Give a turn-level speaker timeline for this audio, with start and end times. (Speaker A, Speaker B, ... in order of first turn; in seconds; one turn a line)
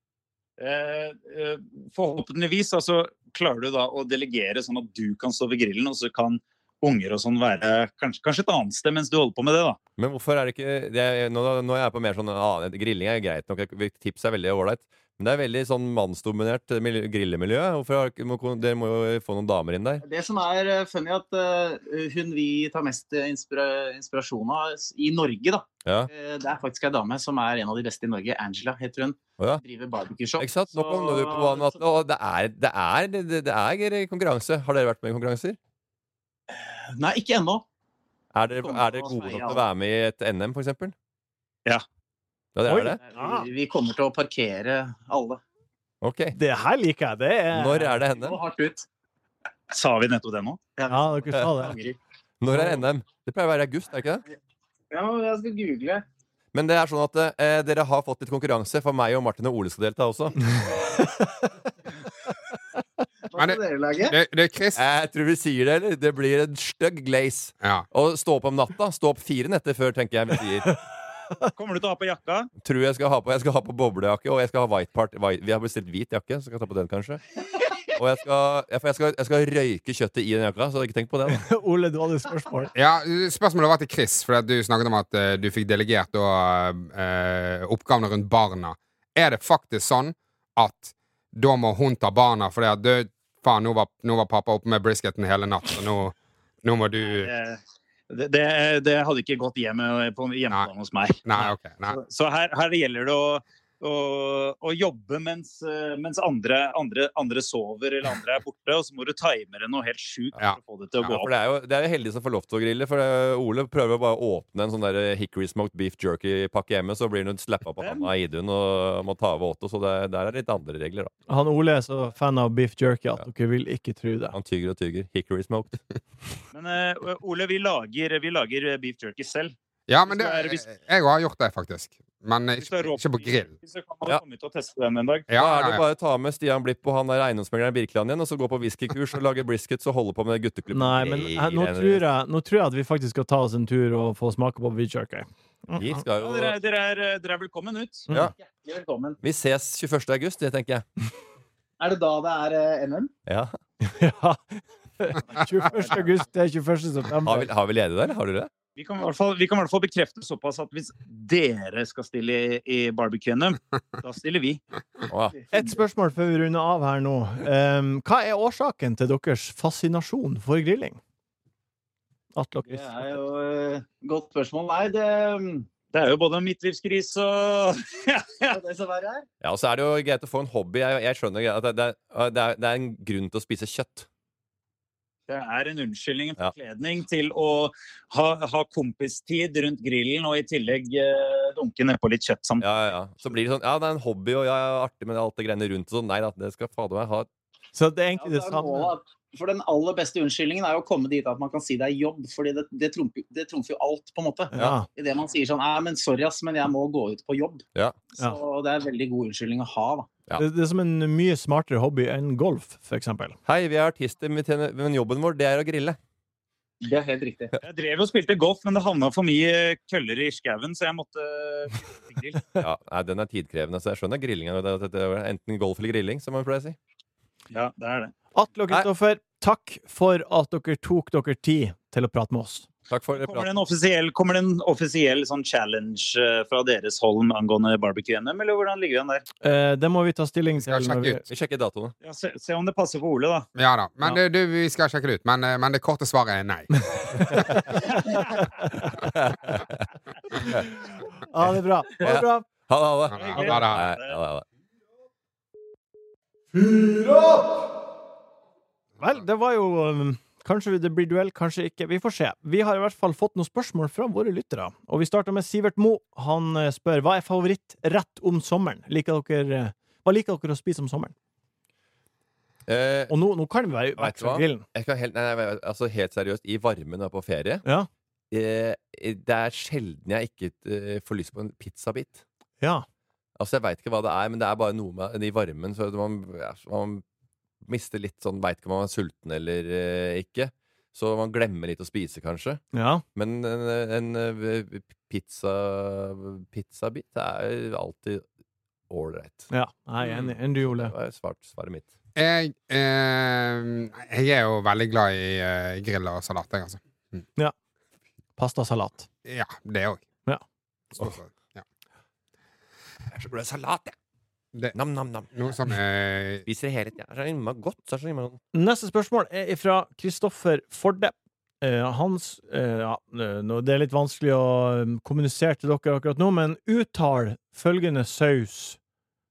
Speaker A: 0.6-9.8
Speaker B: 10.0-20.0
Speaker C: 20.0-31.8
Speaker B: 25.9-26.1
Speaker B: 30.4-35.6
Speaker C: 36.5-37.6
Speaker B: 38.3-40.9
Speaker C: 38.5-39.6
Speaker B: 42.5-43.0
Speaker D: 42.7-43.5
Speaker C: 43.0-45.4
Speaker B: 46.0-46.4
Speaker D: 46.3-48.0
Speaker B: 47.5-48.4
Speaker C: 48.1-48.9
Speaker A: 49.7-50.6
Speaker C: 50.8-52.0
Speaker D: 50.9-51.8
Speaker B: 52.4-54.2
Speaker D: 52.5-52.8
Speaker C: 54.9-56.0
Speaker B: 56.5-60.6
Speaker D: 60.7-61.5
Speaker C: 63.3-64.2
Speaker E: 63.4-64.8
Speaker B: 64.8-70.8
Speaker A: 71.5-72.5
Speaker B: 72.6-77.2
Speaker B: 77.9-81.5
Speaker D: 81.3-82.7
Speaker E: 82.8-97.3
Speaker A: 97.1-111.3
Speaker E: 101.2-102.0
Speaker B: 111.1-121.1
Speaker A: 117.8-118.1
Speaker D: 121.3-124.4
Speaker B: 124.3-125.8
Speaker A: 126.5-129.5
Speaker E: 129.9-133.5
Speaker A: 130.1-130.7
Speaker A: 132.6-135.3
Speaker E: 135.3-135.8
Speaker B: 135.3-142.0
Speaker D: 140.7-145.9
Speaker B: 145.8-146.6
Speaker A: 146.1-148.1
Speaker C: 148.4-149.2
Speaker B: 149.2-150.9
Speaker C: 151.8-153.1
Speaker B: 153.3-153.6
Speaker D: 153.8-157.5
Speaker B: 157.2-158.5
Speaker A: 158.8-164.6
Speaker B: 165.1-165.5
Speaker D: 165.5-171.0
Speaker D: 172.3-173.2
Speaker C: 172.7-175.7
Speaker A: 175.9-178.6
Speaker C: 178.5-179.3
Speaker B: 179.4-184.1
Speaker A: 185.3-192.6
Speaker B: 192.6-197.3
Speaker D: 197.8-198.9
Speaker C: 198.2-210.1
Speaker D: 204.5-204.9
Speaker D: 210.4-213.4
Speaker B: 213.5-216.0
Speaker C: 216.8-217.5
Speaker A: 217.6-222.5
Speaker B: 222.6-226.8
Speaker A: 227.5-228.1
Speaker D: 228.3-232.7
Speaker B: 232.9-233.5
Speaker A: 233.2-239.2
Speaker D: 239.4-241.2
Speaker E: 240.6-241.2
Speaker B: 241.3-241.9
Speaker A: 242.0-243.5
Speaker E: 243.6-247.6
Speaker D: 246.9-248.9
Speaker B: 249.0-249.9
Speaker D: 251.3-252.5
Speaker B: 251.5-254.4
Speaker E: 253.1-253.9
Speaker A: 253.1-254.2
Speaker D: 256.5-257.7
Speaker D: 259.0-271.1
Speaker B: 272.7-273.1
Speaker D: 273.1-274.6
Speaker B: 274.0-277.6
Speaker D: 277.6-277.9
Speaker B: 278.3-282.2
Speaker D: 282.6-282.9
Speaker B: 283.4-287.0
Speaker B: 287.6-298.2
Speaker D: 292.7-293.0
Speaker B: 298.9-299.5
Speaker D: 299.5-300.9
Speaker B: 300.0-301.9
Speaker E: 302.2-307.2
Speaker D: 308.4-309.1
Speaker E: 309.2-310.0
Speaker E: 310.9-311.6
Speaker B: 313.1-313.9
Speaker B: 314.7-315.3
Speaker E: 315.3-316.4
Speaker B: 316.5-318.4
Speaker D: 318.5-328.8